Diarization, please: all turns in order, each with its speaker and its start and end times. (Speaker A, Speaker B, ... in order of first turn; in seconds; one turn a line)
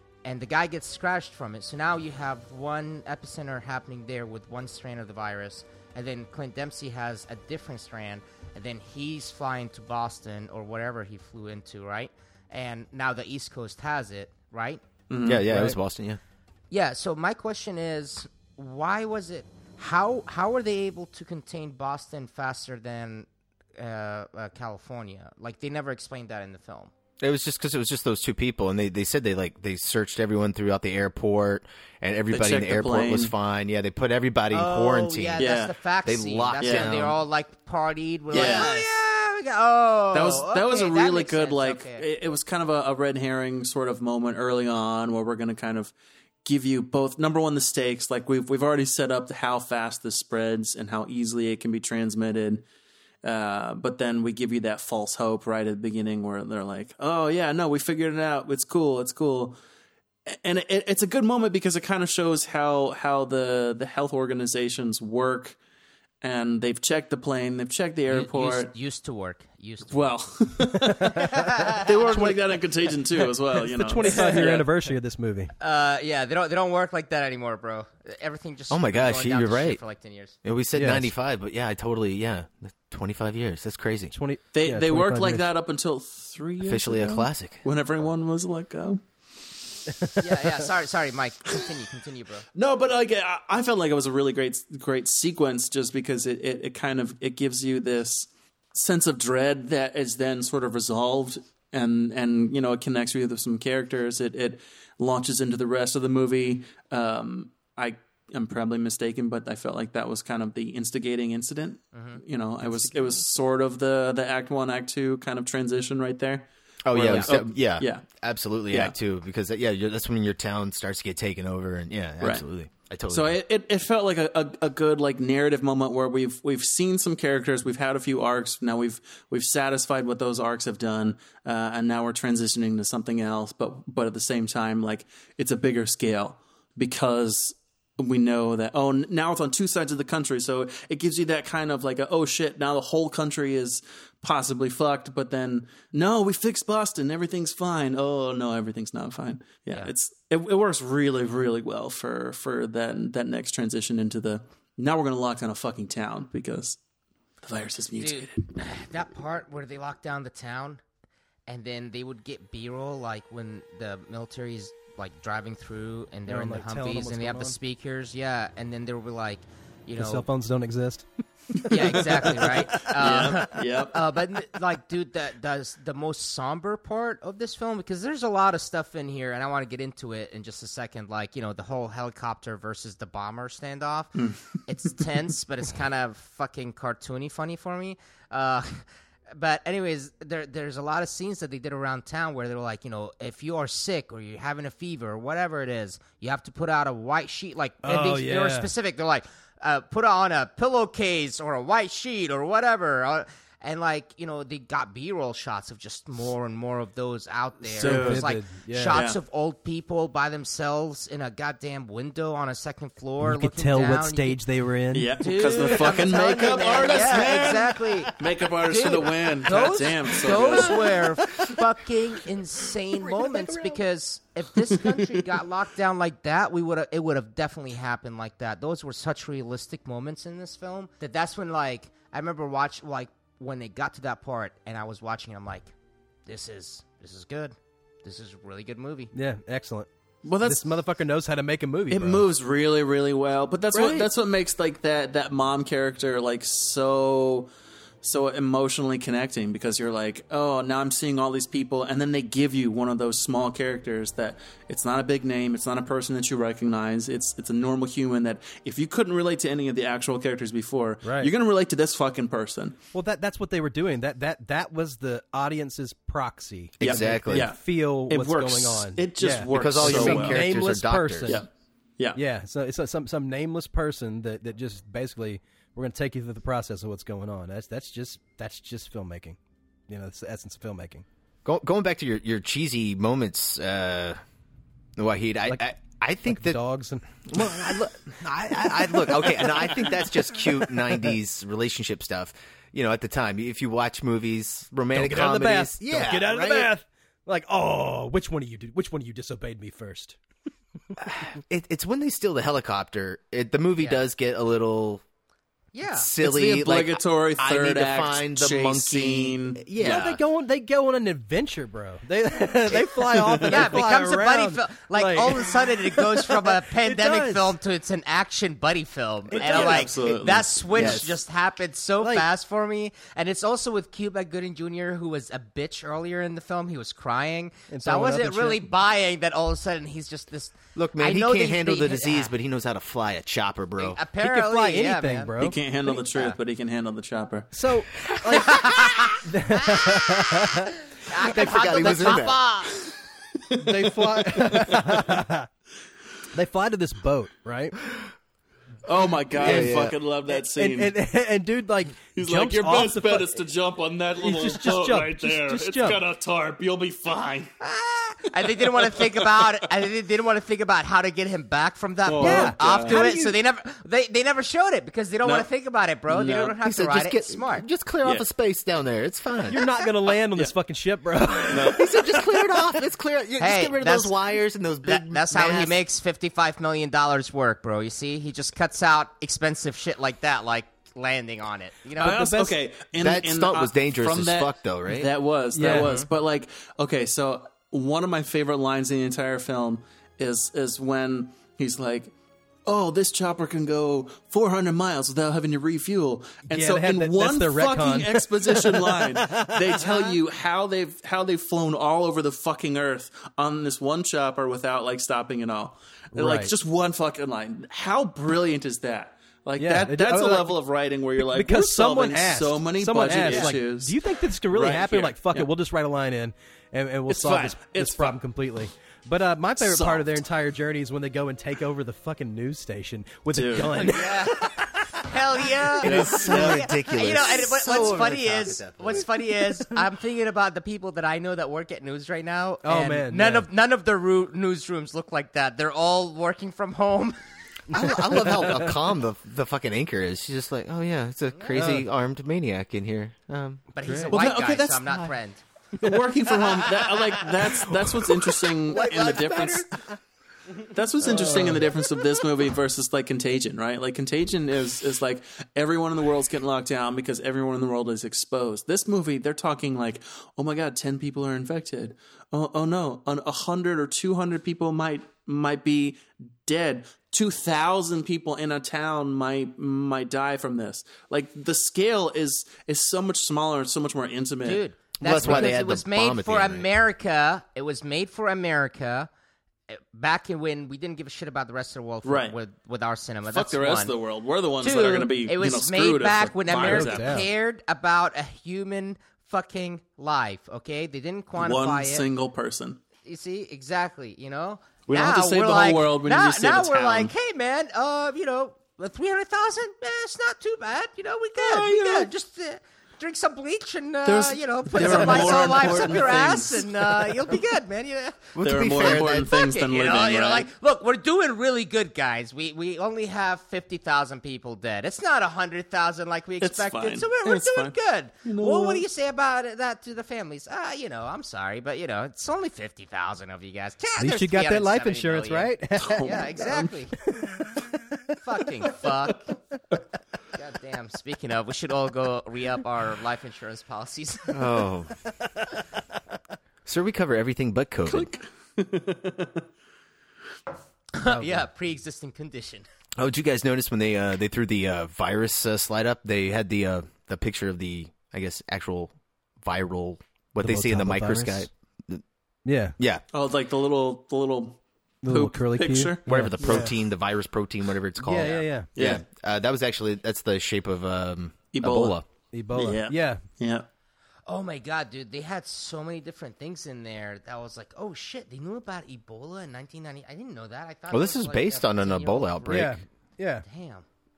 Speaker A: 0.2-14.8
Speaker B: 15.1-15.7
Speaker C: 15.2-16.2
Speaker D: 15.5-15.7
Speaker A: 16.7-26.9
Speaker C: 27.2-35.5
Speaker B: 32.3-33.3
Speaker A: 34.5-42.0
Speaker B: 35.4-35.7
Speaker C: 36.0-37.2
Speaker B: 36.6-36.9
Speaker B: 38.3-38.7
Speaker C: 38.3-38.9
Speaker B: 40.1-45.9
Speaker B: 46.4-52.6
Speaker B: 53.2-59.6
Speaker B: 60.3-65.5
Speaker B: 66.2-68.7
Speaker A: 68.1-70.0
Speaker B: 69.9-71.2
Speaker D: 70.8-71.5
Speaker A: 71.2-71.9
Speaker B: 71.8-74.7
Speaker D: 72.1-72.5
Speaker D: 73.2-75.5
Speaker A: 74.1-74.4
Speaker A: 75.6-80.3
Speaker C: 78.7-79.8
Speaker C: 80.4-84.1
Speaker D: 80.7-81.1
Speaker D: 84.1-85.4
Speaker B: 84.5-89.0
Speaker C: 86.6-87.6
Speaker A: 90.2-92.5
Speaker B: 92.5-118.0
Speaker A: 111.9-112.2
Speaker C: 116.8-123.4
Speaker B: 123.1-156.8
Speaker B: 157.4-158.4
Speaker A: 158.0-160.8
Speaker A: 161.5-170.2
Speaker D: 166.3-167.6
Speaker D: 170.0-171.1
Speaker A: 171.7-214.4
Speaker D: 171.7-172.5
Speaker B: 172.9-174.0
Speaker B: 184.2-184.4
Speaker D: 197.8-198.7
Speaker D: 207.6-209.0
Speaker B: 207.8-208.2
Speaker B: 208.9-209.2
Speaker D: 213.2-215.3
Speaker B: 214.9-220.9
Speaker A: 215.2-235.7
Speaker C: 216.5-217.4
Speaker C: 220.4-220.9
Speaker C: 223.2-223.8
Speaker A: 236.2-239.1
Speaker D: 239.1-239.9
Speaker B: 240.2-240.7
Speaker D: 240.4-242.2
Speaker B: 241.9-247.5
Speaker C: 243.7-244.1
Speaker B: 248.0-262.8
Speaker D: 261.0-261.3
Speaker D: 262.9-271.4
Speaker C: 266.8-267.5
Speaker B: 266.8-270.5
Speaker C: 269.5-271.4
Speaker B: 271.3-272.2
Speaker D: 272.1-281.0
Speaker C: 281.4-284.2
Speaker C: 285.0-286.6
Speaker D: 286.3-287.5
Speaker C: 287.2-296.7
Speaker D: 289.2-289.7
Speaker D: 294.9-300.2
Speaker C: 301.0-305.0
Speaker A: 303.8-304.0
Speaker A: 305.7-306.1
Speaker C: 305.9-310.2
Speaker B: 306.2-310.0
Speaker D: 309.8-317.5
Speaker A: 313.5-332.3
Speaker B: 319.3-321.0
Speaker D: 319.3-319.9
Speaker C: 320.7-321.2
Speaker D: 322.0-322.3
Speaker D: 327.7-328.7
Speaker C: 330.7-334.0
Speaker A: 333.8-335.4
Speaker D: 334.2-336.3
Speaker B: 335.4-337.5
Speaker D: 337.5-340.7
Speaker A: 338.4-339.2
Speaker A: 339.7-340.0
Speaker A: 341.1-342.8
Speaker C: 341.2-342.4
Speaker D: 341.3-342.3
Speaker D: 343.5-345.5
Speaker B: 343.7-344.8
Speaker D: 346.3-347.8
Speaker B: 348.8-350.9
Speaker C: 349.4-349.9
Speaker D: 349.4-349.7
Speaker D: 350.3-353.3
Speaker B: 352.1-357.5
Speaker D: 354.2-356.0
Speaker A: 357.6-367.6
Speaker B: 358.6-359.5
Speaker B: 362.1-363.0
Speaker D: 362.2-363.4
Speaker B: 366.1-366.5
Speaker C: 366.6-369.6
Speaker D: 369.5-371.9
Speaker B: 371.5-371.9
Speaker C: 371.6-375.8
Speaker A: 373.4-374.1
Speaker A: 374.8-382.4
Speaker B: 382.0-392.1
Speaker D: 382.0-382.5
Speaker C: 383.0-385.1
Speaker D: 385.5-386.0
Speaker A: 385.6-386.1
Speaker B: 392.6-415.5
Speaker D: 396.5-400.2
Speaker D: 406.1-406.5
Speaker D: 409.6-410.6
Speaker D: 411.2-424.3
Speaker B: 417.1-418.2
Speaker B: 419.6-420.2
Speaker B: 423.3-423.9
Speaker A: 423.8-437.1
Speaker C: 425.8-429.1
Speaker B: 425.8-426.7
Speaker D: 432.6-433.5
Speaker D: 437.7-438.7
Speaker C: 437.7-443.7
Speaker A: 441.3-441.6
Speaker D: 441.5-441.9
Speaker A: 443.7-445.4
Speaker D: 443.8-444.1
Speaker B: 444.1-445.1
Speaker B: 445.8-449.7
Speaker A: 446.6-446.9
Speaker A: 448.7-449.6
Speaker B: 450.7-474.6
Speaker D: 451.0-451.7
Speaker A: 474.4-479.1
Speaker C: 475.0-476.7
Speaker B: 475.2-475.5
Speaker A: 479.7-483.9
Speaker B: 482.0-482.4
Speaker B: 483.3-487.2
Speaker A: 484.6-492.0
Speaker D: 486.5-487.3
Speaker B: 491.4-492.8
Speaker A: 493.0-508.2
Speaker B: 494.9-497.1
Speaker B: 501.4-502.1
Speaker B: 504.0-506.7
Speaker C: 508.3-509.4
Speaker B: 508.4-510.5
Speaker A: 509.1-527.0
Speaker B: 516.4-518.8
Speaker D: 524.0-526.3
Speaker B: 525.8-526.6
Speaker D: 527.1-527.8
Speaker A: 528.2-529.3
Speaker A: 530.3-534.4
Speaker C: 534.3-534.9
Speaker C: 536.6-538.1
Speaker B: 537.9-539.4
Speaker A: 540.9-542.6
Speaker D: 541.0-541.4
Speaker C: 543.0-552.0
Speaker D: 550.4-551.5
Speaker D: 552.4-552.8
Speaker B: 553.1-556.5
Speaker D: 555.0-556.7
Speaker C: 556.0-562.1
Speaker D: 558.0-558.7
Speaker B: 558.8-559.0
Speaker B: 561.5-562.0
Speaker D: 562.3-563.2
Speaker B: 562.5-563.7
Speaker A: 564.3-572.7
Speaker C: 570.9-572.8
Speaker D: 572.5-573.4
Speaker A: 573.4-573.8